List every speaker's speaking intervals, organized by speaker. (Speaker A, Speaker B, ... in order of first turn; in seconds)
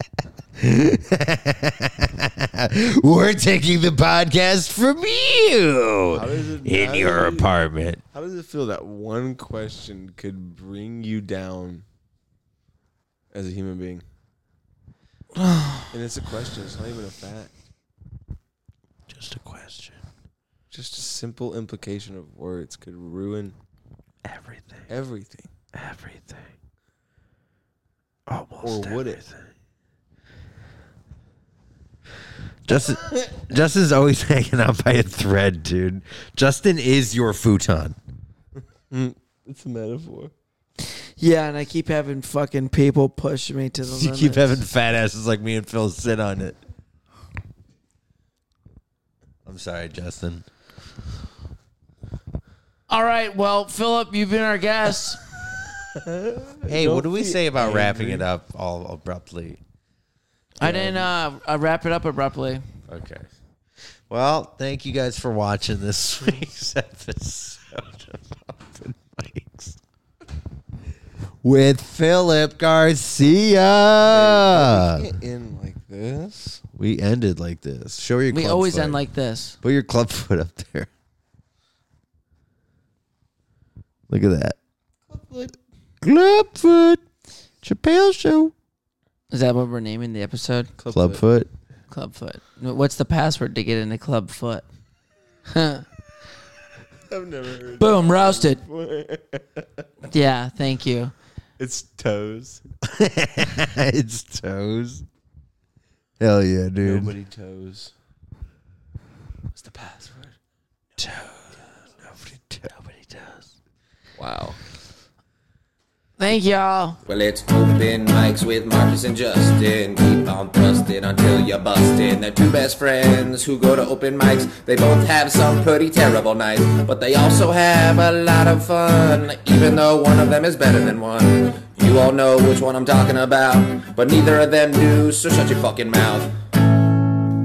Speaker A: 0.6-8.0, 19.1-20.0, 24.2-24.9, 25.7-26.5, 28.3-29.3, 32.6-38.0, 43.8-46.6, 49.5-50.5, 56.7-59.6, 62.9-63.3, 64.1-69.8, 71.4-75.0, 76.8-79.0, 79.6-80.9, 84.1-84.6, 86.0-87.0, 87.6-88.5, 90.9-91.5, 102.8-105.0, 106.2-107.1, 111.0-113.5
Speaker B: 6.1-7.5, 8.1-11.8, 13.3-14.0, 15.9-17.5, 20.7-23.6, 24.9-25.5, 28.6-29.2, 38.6-40.3, 55.9-58.2, 60.6-61.1, 74.0-76.6, 85.1-85.5, 90.8-91.2, 97.1-99.8, 101.6-102.6, 106.8-107.9, 109.5-110.3, 114.2-114.6
Speaker C: 15.3-15.9, 40.9-44.6, 52.9-55.2, 60.6-62.6, 78.3-79.6, 89.3-90.7, 91.9-94.6, 95.5-95.8, 97.8-98.6, 100.1-101.1, 116.2-117.0
Speaker D: 117.0-136.3